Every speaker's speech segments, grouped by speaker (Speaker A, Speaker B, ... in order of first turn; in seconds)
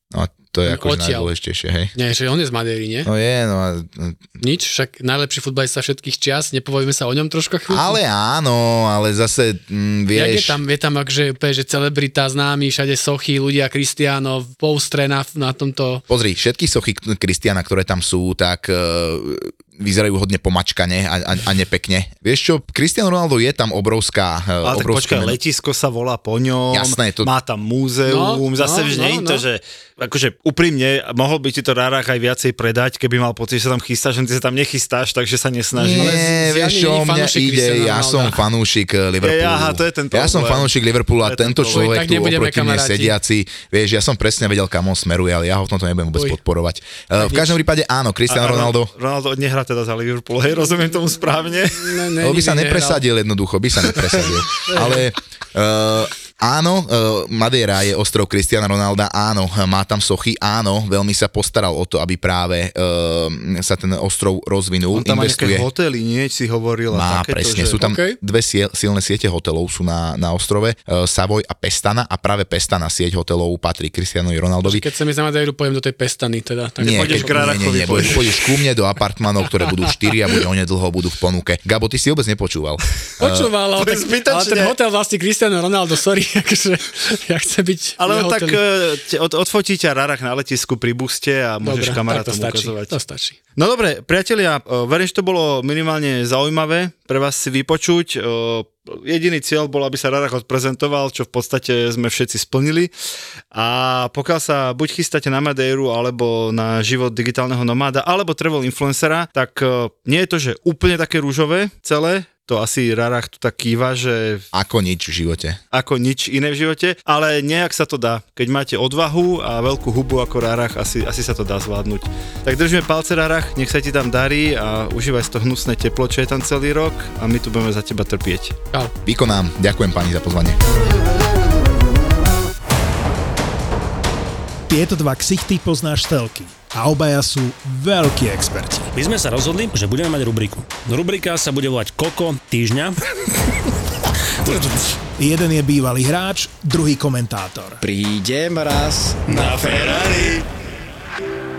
Speaker A: 0.1-1.9, 3.1-4.2, 7.7-10.6, 16.1-25.4, 26.7-27.3, 35.8-48.9, 52.2-65.7, 66.9-74.8, 76.8-83.5, 114.5-115.6, 129.1-130.6
Speaker B: 0.7-1.3, 2.0-3.1, 4.4-8.0, 10.1-16.0, 28.1-29.4, 36.0-38.4, 41.7-43.1, 47.2-47.5, 51.8-53.0, 53.9-55.0, 67.8-68.2, 74.6-78.1, 83.2-88.6, 91.6-93.4
Speaker C: 24.6-36.2, 39.2-42.0, 48.3-52.0, 64.9-67.8, 76.8-78.3, 83.8-84.8, 88.0-92.9, 93.6-102.9, 103.5-114.5, 115.7-128.6
Speaker D: 134.7-138.9, 145.2-147.8
Speaker E: 138.9-143.0, 144.4-144.8, 149.3-150.3
Speaker F: 147.8-150.3